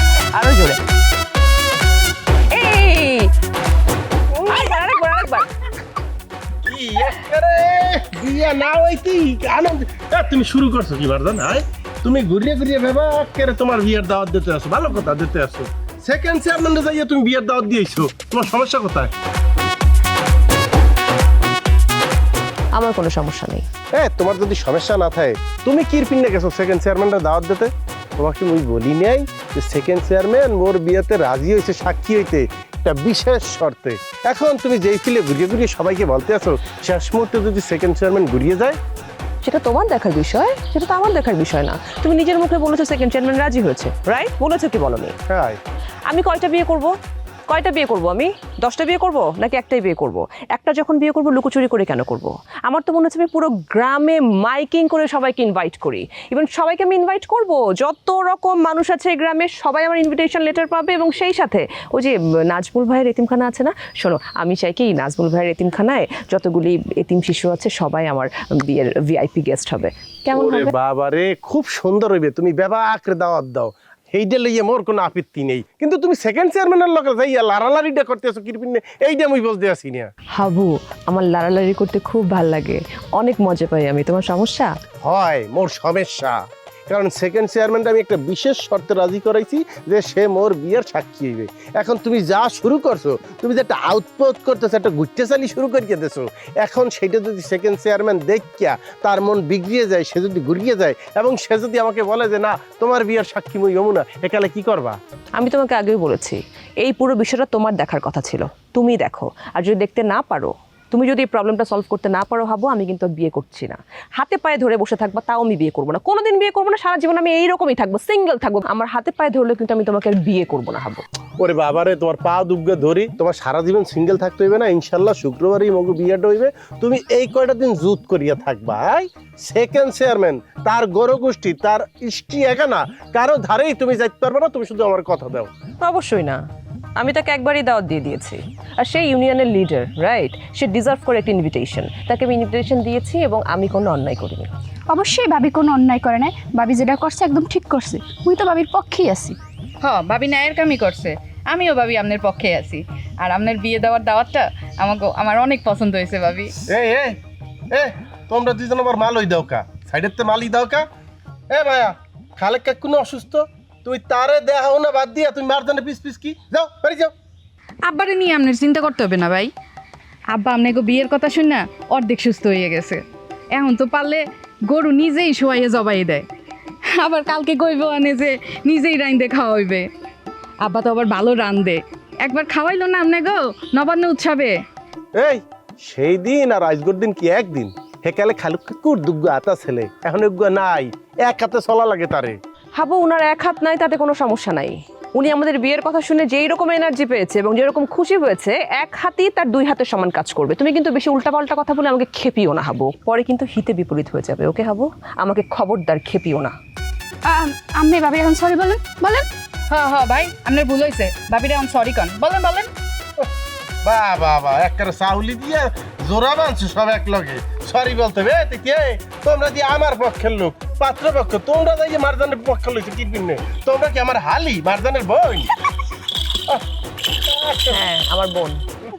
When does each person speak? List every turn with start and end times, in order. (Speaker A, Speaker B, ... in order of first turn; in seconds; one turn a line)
Speaker A: 0.3-0.8
Speaker A: 2.5-3.3
Speaker A: 4.3-5.5
Speaker B: 6.6-19.1
Speaker A: 22.7-23.7
Speaker B: 24.0-38.8
Speaker A: 39.4-45.1
Speaker B: 45.3-45.6
Speaker A: 46.1-46.9
Speaker A: 47.5-70.7
Speaker B: 70.3-80.1
Speaker A: 80.4-84.7
Speaker B: 85.0-86.4
Speaker B: 86.9-105.0
Speaker A: 105.4-121.0
Speaker B: 121.4-135.5
Speaker A: 135.8-136.4
Speaker A: 137.0-144.5
Speaker C: 144.9-149.4
Speaker D: 149.8-156.6
Speaker B: 156.7-157.2
Speaker B: 157.7-160.8
Speaker B: 161.5-167.1
Speaker D: 167.8-169.5
Speaker D: 170.3-173.0
Speaker D: 173.5-176.3
Speaker D: 177.0-179.9
Speaker D: 180.6-184.6
Speaker B: 185.2-192.4
Speaker A: 192.8-206.5
Speaker C: 207.2-209.3
Speaker D: 209.7-212.7
Speaker B: 213.8-225.5
Speaker B: 227.2-227.8
Speaker A: 227.7-228.6